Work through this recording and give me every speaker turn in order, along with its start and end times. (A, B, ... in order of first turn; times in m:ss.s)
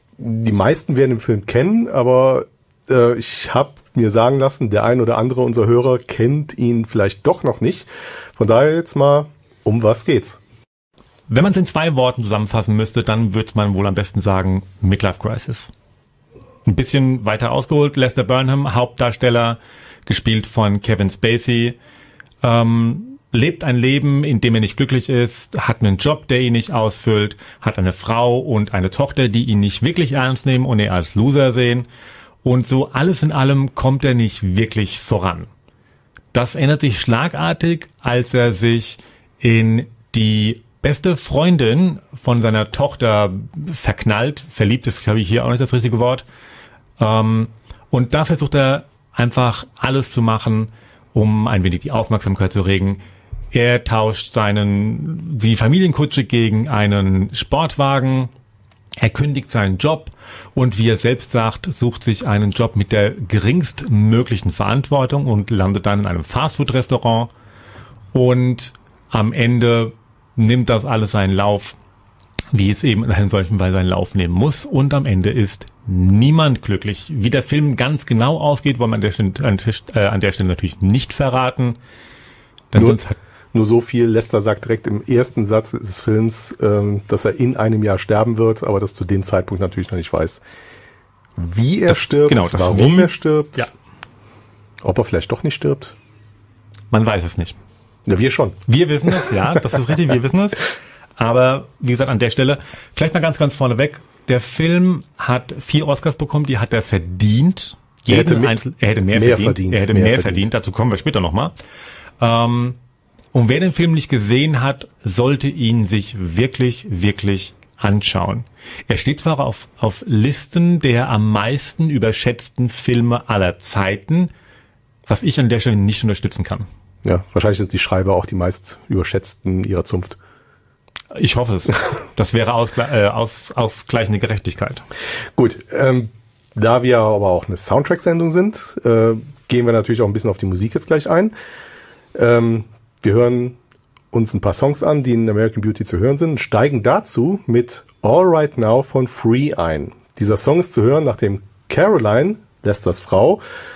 0:00.2-0:10.4 A
0:11.3-0:15.7 B
0:16.6-0:21.8 B
0:22.4-0:31.9 B
0:32.4-0:35.5 B
0:36.3-0:46.2 B
0:47.0-0:53.0 B
0:53.5-0:58.3 B
0:59.0-1:07.3 B
1:08.1-1:11.8 B
1:12.5-1:21.8 B
1:22.7-1:23.2 B
1:22.7-1:23.0 A
1:23.5-1:30.4 A
1:31.4-1:33.7 A
1:31.9-1:33.7 B
1:34.8-1:35.9 A
1:36.9-1:37.6 B
1:38.1-1:38.6 A
1:38.7-1:40.6 B
1:41.2-1:51.5 B
1:48.1-1:48.6 A
1:49.1-1:50.5 A
1:52.2-1:52.8 B
1:53.3-2:04.3 B
2:05.1-2:06.6 B
2:07.0-2:10.2 A
2:11.1-2:14.8 B
2:15.4-2:21.3 A
2:22.1-2:23.6 A
2:24.1-2:33.4 A